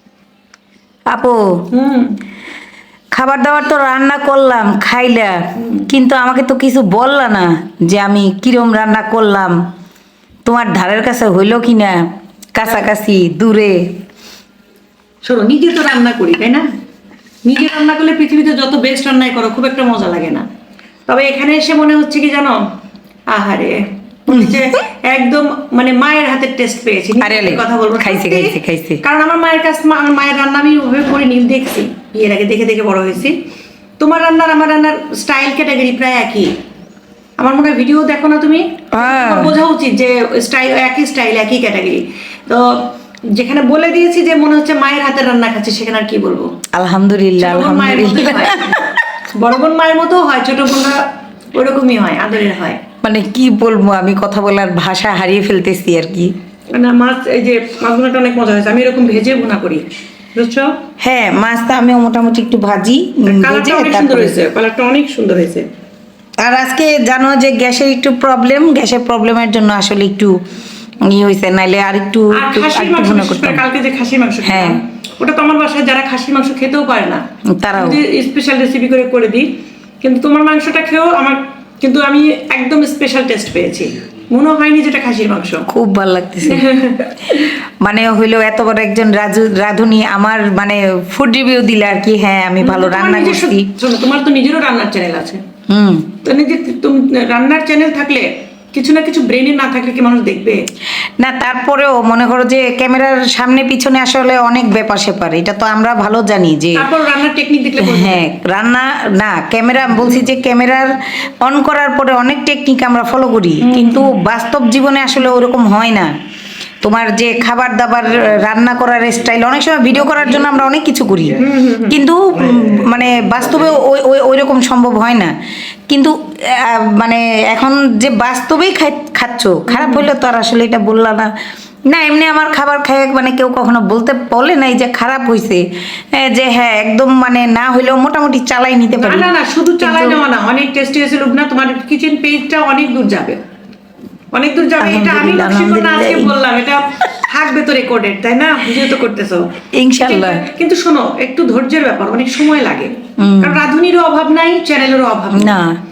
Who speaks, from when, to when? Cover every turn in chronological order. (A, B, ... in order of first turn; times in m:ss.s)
0:01.1-0:01.6 A
0:01.7-0:02.2 B
0:03.1-0:09.6 A
0:05.6-0:05.9 B
0:10.4-0:14.0 A
0:15.2-0:16.6 B
0:17.4-0:20.4 B
0:21.1-0:22.6 B
0:23.3-0:33.4 B
0:27.2-0:29.0 A
0:34.0-0:36.5 B
0:37.4-0:46.5 B
0:38.9-0:39.6 A
0:46.7-0:48.8 A
0:47.4-0:52.8 B
0:53.0-0:56.3 A
0:56.7-1:00.7 B
1:01.0-1:04.4 A
1:03.3-1:05.7 B
1:06.4-1:10.4 A
1:11.0-1:13.6 A
1:12.3-1:17.2 B
1:14.4-1:14.8 A
1:17.5-1:18.0 A
1:17.8-1:19.5 B
1:20.0-1:25.6 B
1:25.7-1:26.6 A
1:26.5-1:27.5 B
1:27.4-1:33.7 A
1:32.6-1:35.4 B
1:35.7-1:36.1 A
1:36.2-1:40.6 B
1:41.2-1:46.9 A
1:46.7-1:48.3 B
1:47.8-1:56.1 A
1:53.6-1:54.1 B
1:56.8-2:01.4 A
2:01.4-2:02.0 B
2:01.9-2:05.3 A
2:05.9-2:11.3 A
2:09.7-2:10.1 B
2:11.9-2:19.3 A
2:19.0-2:23.4 B
2:19.8-2:20.2 A
2:24.3-2:35.5 B
2:24.8-2:26.4 A
2:29.7-2:30.4 A
2:33.2-2:33.6 A
2:35.4-2:35.8 A